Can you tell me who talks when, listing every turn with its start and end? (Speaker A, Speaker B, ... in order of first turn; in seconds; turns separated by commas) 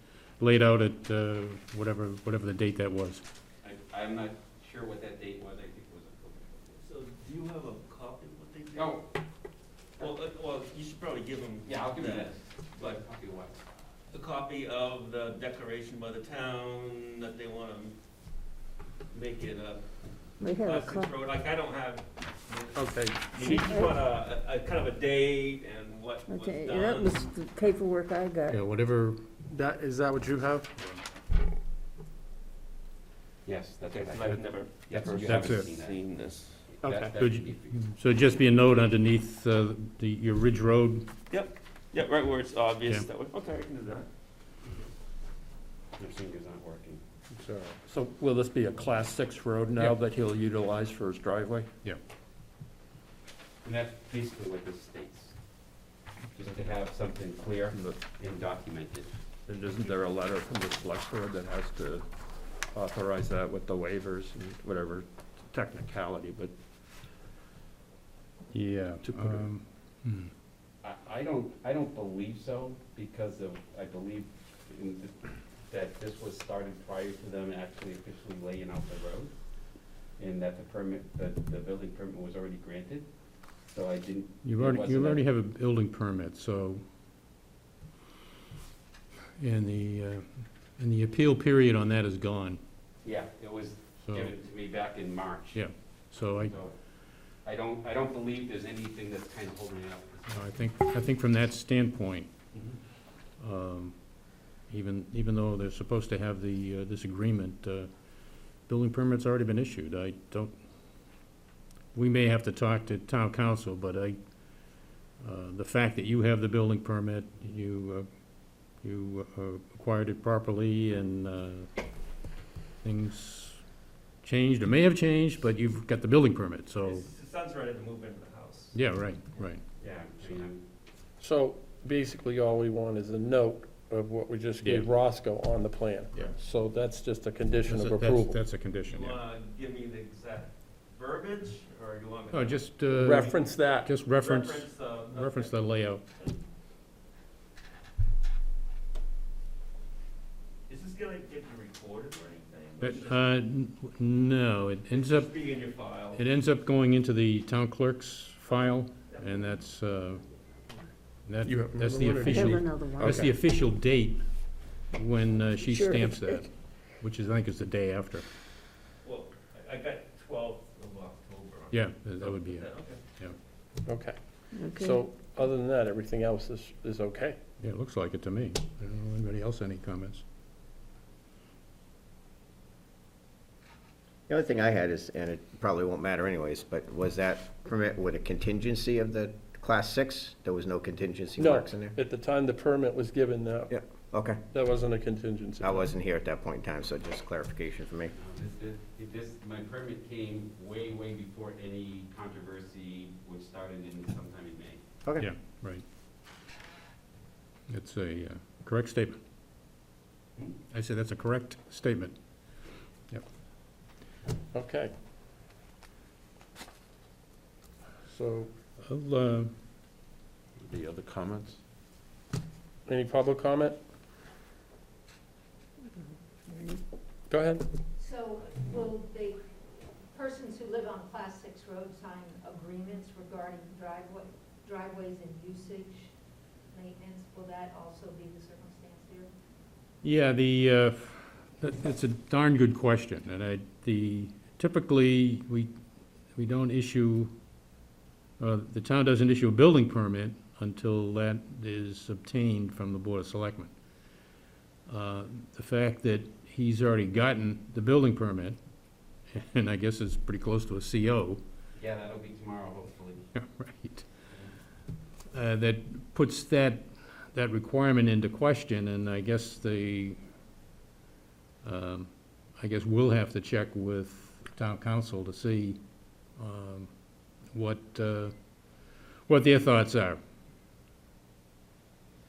Speaker A: 0.4-3.2, Speaker B: 3.6-6.8, Speaker C: 6.8-9.0, Speaker B: 8.7-9.0, Speaker C: 10.0-13.0, Speaker B: 11.7-13.6, Speaker C: 14.1-18.0, Speaker C: 19.1-19.9, Speaker D: 20.4-21.1, Speaker C: 20.6-27.3, Speaker E: 22.8-23.7, Speaker D: 23.7-23.9, Speaker D: 26.3-28.6, Speaker A: 28.5-29.2, Speaker E: 29.5-30.7, Speaker B: 33.5-36.0, Speaker C: 33.9-36.6, Speaker A: 35.2-35.7, Speaker B: 36.7-37.9, Speaker E: 36.9-37.1, Speaker A: 37.1-41.1, Speaker C: 41.3-44.1, Speaker B: 46.0-47.0, Speaker A: 47.4-47.7, Speaker F: 47.8-51.7, Speaker B: 53.6-55.4, Speaker B: 56.4-59.1, Speaker F: 57.7-58.0, Speaker F: 59.5-62.1, Speaker F: 62.7-66.5, Speaker A: 68.5-70.3, Speaker F: 69.0-69.5, Speaker B: 70.8-79.3, Speaker B: 80.2-83.1, Speaker B: 83.7-85.2, Speaker A: 84.4-86.8, Speaker A: 89.4-92.6, Speaker B: 93.0-95.6, Speaker A: 94.0-94.3, Speaker A: 95.5-96.5, Speaker B: 96.3-96.7, Speaker B: 97.4-100.5, Speaker A: 100.3-102.3, Speaker A: 103.4-104.0, Speaker A: 104.7-107.9, Speaker A: 108.6-110.5, Speaker A: 111.9-118.1, Speaker A: 118.8-121.7, Speaker A: 122.8-123.6, Speaker A: 124.2-127.1, Speaker C: 126.8-128.8, Speaker A: 128.7-129.6, Speaker B: 129.8-130.7, Speaker E: 131.2-138.4, Speaker A: 134.6-134.9, Speaker A: 137.7-139.2, Speaker C: 138.9-146.4, Speaker A: 142.3-143.3, Speaker E: 142.9-143.9, Speaker A: 143.8-146.0, Speaker C: 150.7-153.2, Speaker A: 152.8-155.3, Speaker C: 154.9-156.2, Speaker A: 156.1-160.2, Speaker C: 159.1-159.4, Speaker A: 161.3-164.3, Speaker E: 161.5-163.3, Speaker D: 162.2-163.2, Speaker A: 164.9-168.2, Speaker D: 165.6-166.5, Speaker C: 169.0-173.0, Speaker A: 171.7-173.3, Speaker E: 173.9-177.4, Speaker D: 174.5-175.0, Speaker A: 177.6-180.2, Speaker G: 184.3-192.0, Speaker E: 191.4-193.7, Speaker G: 193.7-194.4, Speaker E: 194.5-195.9, Speaker G: 195.6-198.1, Speaker B: 198.2-204.8, Speaker A: 205.2-205.8, Speaker A: 207.7-209.2, Speaker A: 210.7-212.2, Speaker E: 214.5-214.9, Speaker E: 218.1-218.5, Speaker A: 218.8-219.5, Speaker F: 220.7-221.6, Speaker E: 222.9-223.8, Speaker D: 226.5-226.8, Speaker E: 227.3-227.6, Speaker H: 228.0-229.4, Speaker H: 230.1-236.1, Speaker H: 236.7-239.3, Speaker A: 240.0-245.7, Speaker A: 246.3-247.3, Speaker A: 248.4-253.7, Speaker A: 254.9-258.6, Speaker A: 259.3-261.4, Speaker B: 261.8-263.3, Speaker A: 263.3-264.1, Speaker A: 265.3-270.2, Speaker A: 271.6-275.8, Speaker A: 276.4-276.9, Speaker A: 277.5-278.4, Speaker A: 279.3-280.2